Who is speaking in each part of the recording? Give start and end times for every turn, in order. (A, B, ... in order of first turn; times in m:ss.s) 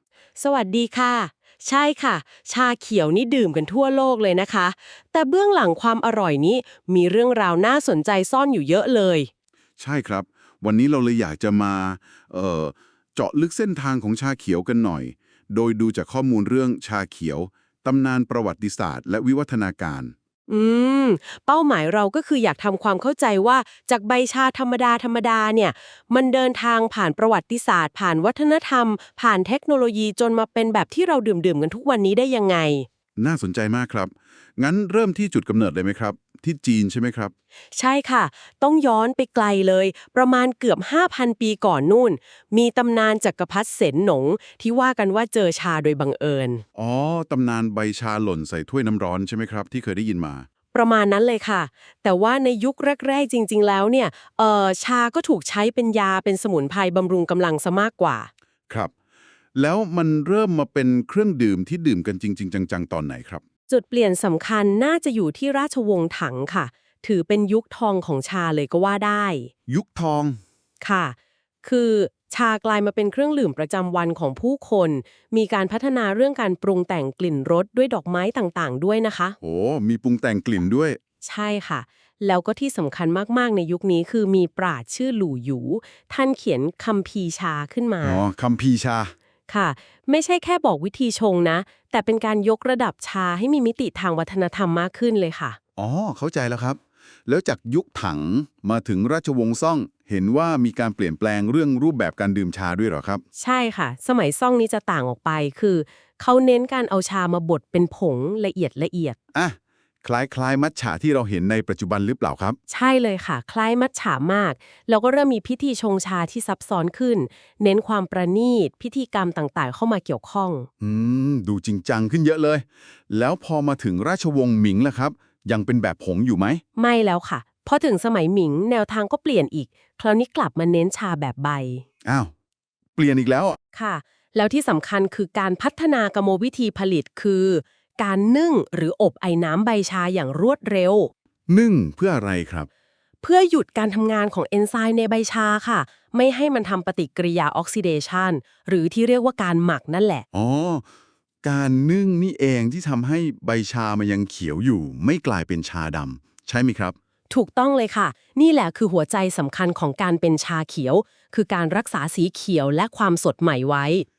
0:00.4-0:09.3 A
0:09.8-0:20.1 B
0:20.5-0:32.9 A
0:33.2-0:37.3 B
0:37.7-0:46.6 A
0:46.8-0:50.5 B
0:50.7-0:58.3 A
0:59.6-1:03.4 B
1:03.7-1:09.5 A
1:09.7-1:10.4 B
1:10.8-1:19.4 A
1:19.4-1:21.0 B
1:21.2-1:28.2 A
1:28.0-1:29.1 B
1:29.5-1:35.6 A
1:35.8-1:43.2 B
1:43.4-1:49.2 A
1:49.3-1:52.6 B
1:52.7-2:00.7 A
2:00.8-2:06.6 B
2:06.8-2:11.8 A
2:12.0-2:12.3 B
2:13.0-2:13.6 B
2:13.7-2:21.1 A
2:21.5-2:22.7 B
2:23.2-2:30.2 A
2:30.3-2:30.9 B
2:31.4-2:37.0 B
2:37.3-2:44.1 A